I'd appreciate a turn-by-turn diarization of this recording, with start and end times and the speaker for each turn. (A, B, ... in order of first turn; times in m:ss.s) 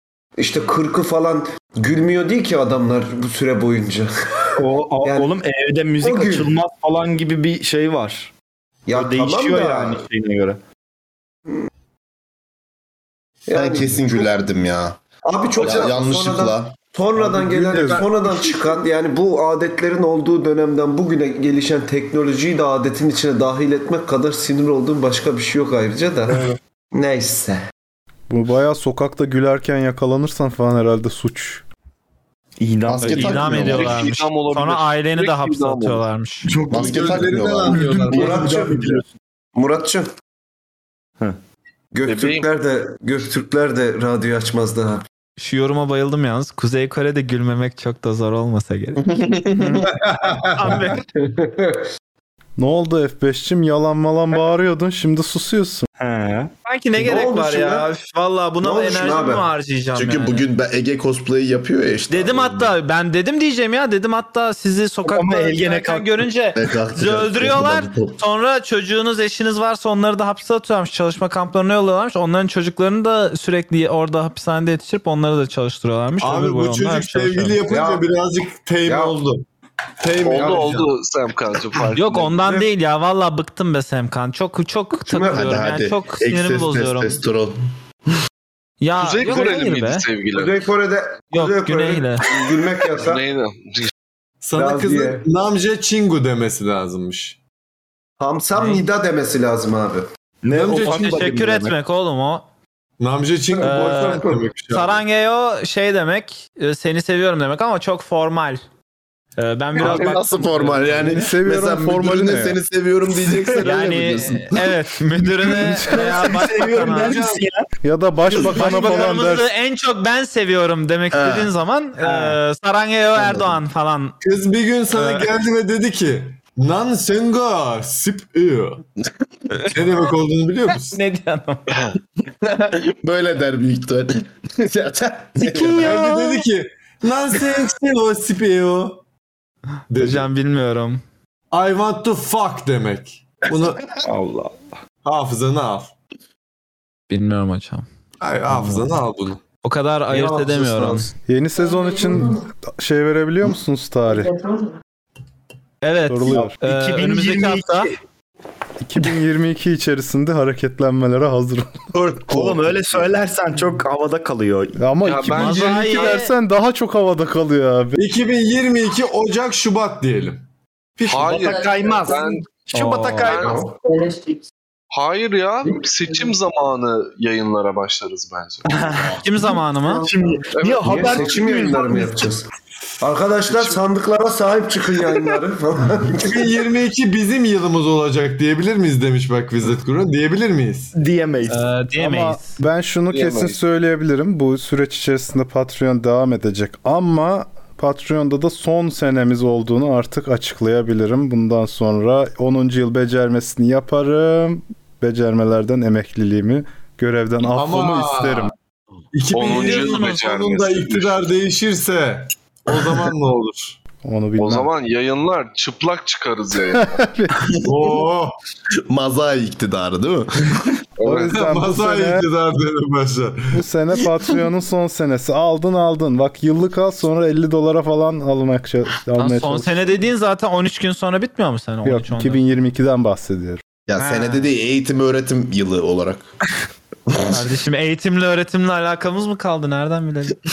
0:00.4-0:05.3 A
0:04.6-0:08.3 B
0:06.0-0:06.6 A
0:08.9-0:10.0 A
0:08.9-0:10.6 B
0:13.5-0:14.2 A
0:13.5-0:15.0 C
0:15.2-0:27.6 A
0:15.6-0:16.8 C
0:17.2-0:18.1 D
0:17.7-0:18.1 E
0:28.3-0:31.6 D
0:32.6-0:34.0 B
0:32.8-0:34.0 C
0:33.0-0:36.5 F
0:33.6-0:36.0 G
0:36.5-0:39.1 B
0:36.7-0:37.9 C
0:36.8-0:38.7 E
0:38.1-0:39.0 A
0:39.6-0:40.1 A
0:41.9-0:45.0 A
0:42.1-0:42.5 G
0:45.4-0:49.0 F
0:49.0-0:49.9 C
0:49.8-0:50.8 E
0:50.4-0:51.0 F
0:51.2-0:51.9 A
0:52.6-0:55.9 D
0:56.0-0:56.5 B
0:56.6-1:00.4 F
0:57.0-0:57.9 A
0:58.6-0:59.5 A
1:00.0-1:02.8 C
1:02.1-1:17.6 F
1:05.1-1:06.2 B
1:06.6-1:08.2 C
1:16.2-1:19.4 E
1:17.6-1:18.1 A
1:18.8-1:19.2 A
1:20.0-1:20.9 E
1:20.2-1:22.3 G
1:20.2-1:20.7 A
1:22.0-1:27.2 F
1:22.4-1:22.7 A
1:25.1-1:25.4 A
1:25.3-1:27.7 C
1:28.8-1:30.0 F
1:29.0-1:30.6 G
1:30.3-1:33.2 A
1:31.3-1:32.2 F
1:32.3-1:33.9 G
1:34.4-1:37.4 E
1:34.5-1:35.2 A
1:38.2-1:40.1 A
1:38.6-1:38.8 F
1:40.4-1:41.8 B
1:40.5-1:41.0 E
1:40.8-1:42.5 F
1:43.0-1:45.0 E
1:43.6-1:44.5 A
1:43.6-1:48.6 F
1:49.4-1:50.8 F
1:49.8-1:54.7 C
1:51.0-1:52.6 D
1:53.6-1:57.2 F
1:55.4-1:57.7 B
1:56.8-1:57.4 E
1:57.8-1:59.5 D
1:58.3-2:04.2 F
2:01.1-2:01.5 C
2:02.0-2:02.4 B
2:03.1-2:03.6 C
2:04.2-2:08.8 E
2:04.9-2:05.3 F
2:09.7-2:11.0 E
2:10.9-2:11.8 F
2:12.4-2:16.0 C
2:15.4-2:16.4 F
2:15.5-2:19.0 E
2:19.9-2:20.3 E
2:20.0-2:21.0 F
2:21.5-2:23.8 E
2:24.0-2:24.7 B
2:25.0-2:25.9 E
2:27.1-2:27.8 F
2:28.2-2:29.4 E
2:29.6-2:31.1 F
2:30.1-2:31.1 A
2:31.3-2:34.4 D
2:35.8-2:37.9 F
2:36.1-2:36.6 D
2:36.4-2:38.0 B
2:38.8-2:42.3 D
2:42.2-2:44.8 B
2:42.3-2:43.0 C
2:44.8-2:48.0 D
2:45.0-2:46.2 G
2:45.3-2:46.3 F
2:48.0-2:50.4 E
2:51.0-2:51.6 E
2:51.1-2:52.4 G
2:51.2-2:53.6 B
2:52.7-2:53.3 F
2:53.2-2:53.7 G
2:53.4-2:53.8 A
2:54.9-2:58.8 G
2:58.7-2:59.2 B
2:59.2-3:00.1 F
2:59.9-3:02.2 B
3:00.5-3:01.8 G
3:00.8-3:02.5 A
3:03.0-3:06.5 A
3:06.1-3:10.9 E
3:11.0-3:11.7 B
3:11.5-3:12.5 F
3:12.0-3:28.5 D
3:13.1-3:13.6 G
3:27.5-3:28.5 E
3:29.1-3:33.8 E
3:29.3-3:31.2 G
3:29.5-3:29.8 F
3:34.0-3:34.7 D
3:34.4-3:36.9 G
3:36.7-3:37.4 D
3:37.6-3:38.4 E
3:38.9-3:40.7 C
3:41.0-3:42.3 D
3:41.1-3:43.6 E
3:43.5-3:49.8 D
3:49.2-3:52.4 F
3:51.8-3:53.6 D
3:53.9-3:56.3 C
3:54.0-3:54.5 F
3:57.1-3:57.4 C
3:57.3-4:00.4 F